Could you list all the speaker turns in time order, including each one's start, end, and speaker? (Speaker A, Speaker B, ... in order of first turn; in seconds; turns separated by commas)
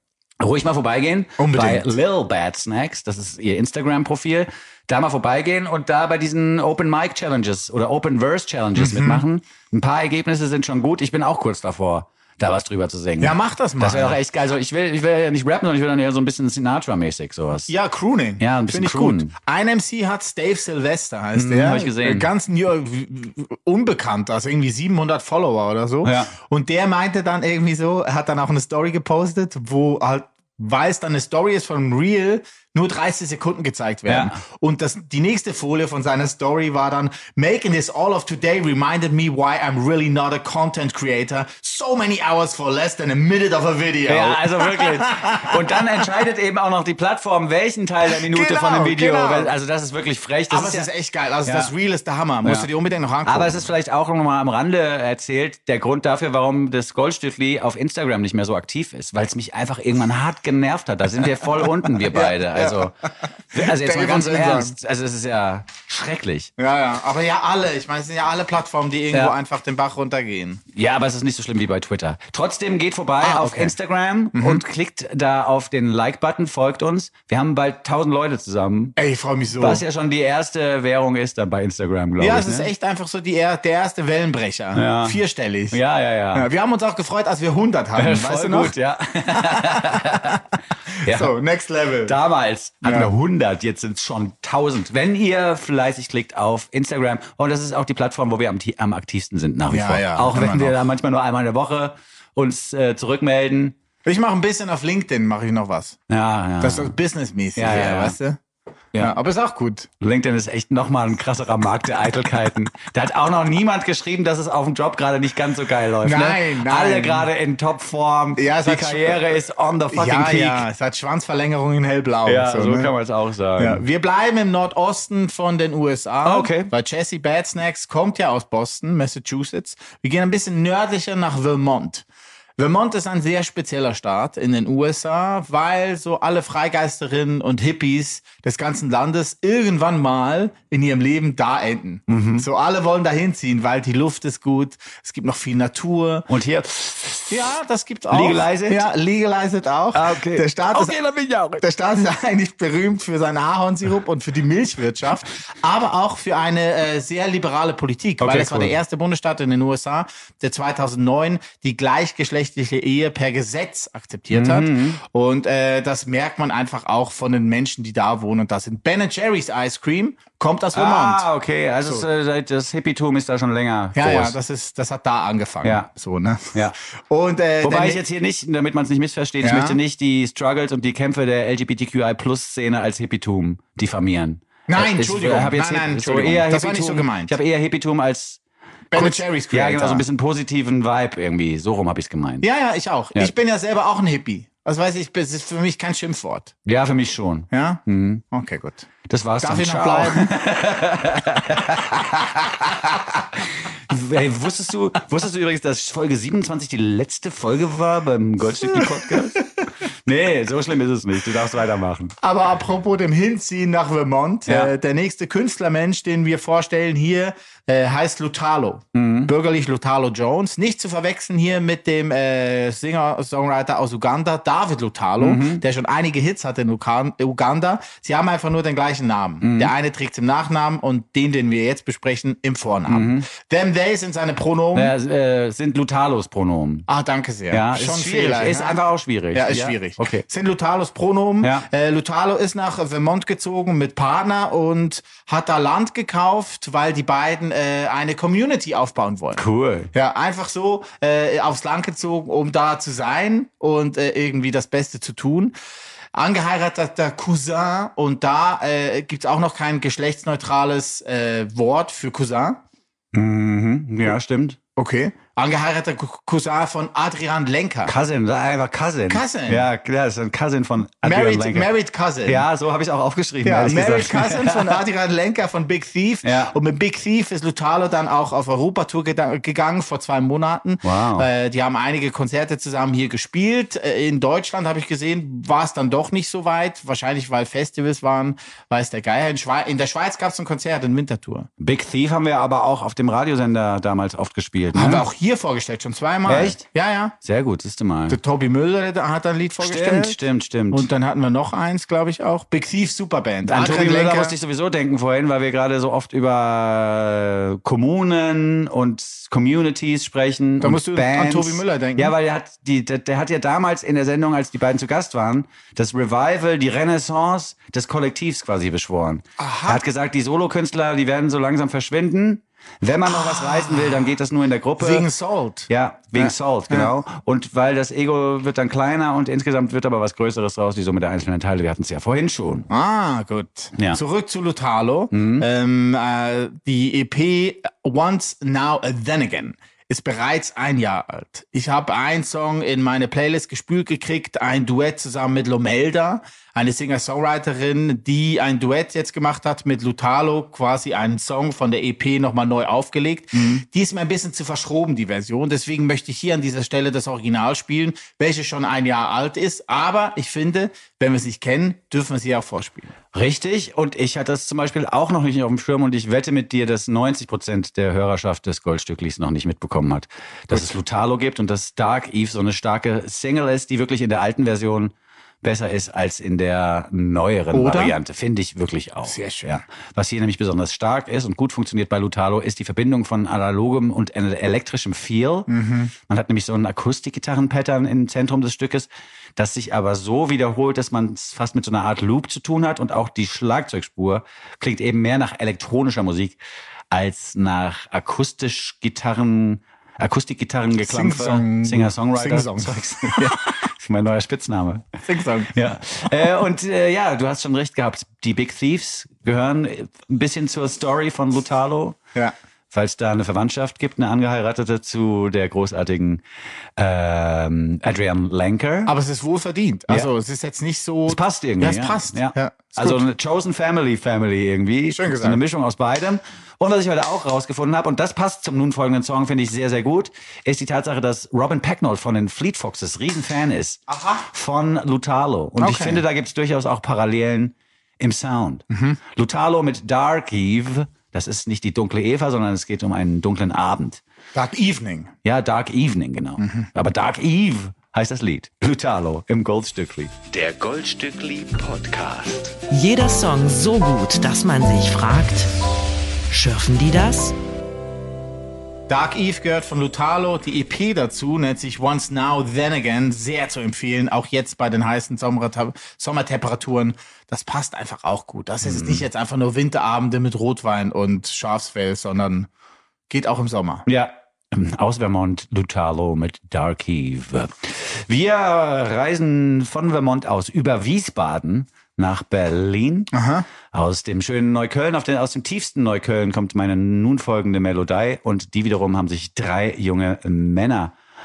Speaker A: 0.4-17.7, Speaker B: 1.4-1.9, Speaker B: 8.8-9.2, Speaker B: 13.2-14.2, Speaker B: 17.7-45.8, Speaker A: 18.4-19.3, Speaker A: 21.3-22.3, Speaker A: 26.0-26.3, Speaker A: 34.1-34.4, Speaker A: 44.1-50.9, Speaker B: 48.1-49.5, Speaker B: 50.5-53.7, Speaker A: 51.4-51.7, Speaker A: 53.2-62.9, Speaker B: 61.6-64.7, Speaker A: 63.5-66.5, Speaker B: 66.6-70.6, Speaker A: 70.7-78.9, Speaker B: 73.2-73.7, Speaker B: 74.3-74.6, Speaker B: 79.0-79.8, Speaker A: 79.6-82.7, Speaker B: 82.2-85.8, Speaker A: 84.7-86.5, Speaker B: 86.3-88.7, Speaker A: 88.0-90.4, Speaker B: 89.3-92.2, Speaker A: 91.0-91.3, Speaker A: 92.0-103.8, Speaker B: 92.8-93.1, Speaker B: 99.7-100.8, Speaker B: 104.0-106.0, Speaker A: 106.1-107.0, Speaker B: 106.6-108.4, Speaker A: 107.5-108.2, Speaker B: 109.0-109.9, Speaker A: 110.0-120.7, Speaker B: 116.0-117.3, Speaker B: 118.3-119.4, Speaker B: 119.9-122.9, Speaker A: 122.2-123.8, Speaker B: 123.6-132.1, Speaker A: 126.2-126.7, Speaker B: 132.6-146.3, Speaker A: 142.1-142.5, Speaker A: 146.3-147.5, Speaker B: 147.3-150.9, Speaker A: 148.1-148.9, Speaker A: 149.9-151.6, Speaker B: 151.6-171.3, Speaker A: 158.2-158.8, Speaker A: 164.3-165.0, Speaker A: 170.7-174.4, Speaker B: 173.9-178.0, Speaker A: 177.6-188.4, Speaker B: 179.4-179.8, Speaker B: 184.7-187.3, Speaker B: 188.9-190.1, Speaker A: 188.9-192.4, Speaker B: 192.4-196.5, Speaker A: 196.7-198.2, Speaker B: 197.5-198.9, Speaker A: 199.1-212.2, Speaker B: 199.4-200.3, Speaker B: 212.2-234.9, Speaker A: 214.5-214.7, Speaker A: 218.9-219.3, Speaker A: 225.2-225.6, Speaker A: 229.4-229.7, Speaker A: 232.9-233.3, Speaker A: 234.7-236.9, Speaker B: 236.9-238.8, Speaker A: 237.5-240.2, Speaker B: 239.3-255.5, Speaker A: 241.4-241.7, Speaker A: 249.3-249.9, Speaker B: 256.1-262.6, Speaker A: 263.1-264.6, Speaker B: 264.8-267.9, Speaker A: 267.9-271.7, Speaker B: 269.1-269.7, Speaker B: 271.0-272.4, Speaker A: 272.2-274.8, Speaker B: 273.4-291.5, Speaker A: 276.2-276.5, Speaker A: 280.8-281.3, Speaker A: 291.6-295.1, Speaker B: 294.7-297.1, Speaker A: 296.2-296.6, Speaker A: 297.2-298.2, Speaker B: 298.1-304.4, Speaker A: 299.6-300.9, Speaker A: 303.4-325.1, Speaker B: 310.6-312.1, Speaker B: 319.4-319.8, Speaker B: 323.1-324.1, Speaker B: 324.8-326.9, Speaker A: 325.7-332.7, Speaker B: 332.7-362.9, Speaker A: 335.1-335.4, Speaker A: 363.1-385.5, Speaker B: 377.5-377.9, Speaker B: 379.0-379.5, Speaker B: 385.5-385.9, Speaker A: 386.0-396.4, Speaker A: 396.9-404.9, Speaker B: 400.8-403.4, Speaker B: 405.0-405.5, Speaker A: 405.5-412.0, Speaker A: 412.7-416.2, Speaker A: 416.8-418.9, Speaker B: 418.9-423.0, Speaker A: 421.1-444.0, Speaker B: 424.9-425.4, Speaker B: 433.9-434.3, Speaker B: 435.6-436.0, Speaker B: 438.7-439.0, Speaker B: 444.3-445.1, Speaker A: 445.2-452.6, Speaker B: 446.4-446.7, Speaker C: 452.7-455.5, Speaker C: 456.3-457.3, Speaker B: 458.9-472.5, Speaker A: 468.6-469.0, Speaker B: 473.1-473.8, Speaker A: 473.9-483.1, Speaker B: 483.1-483.4, Speaker A: 483.7-490.9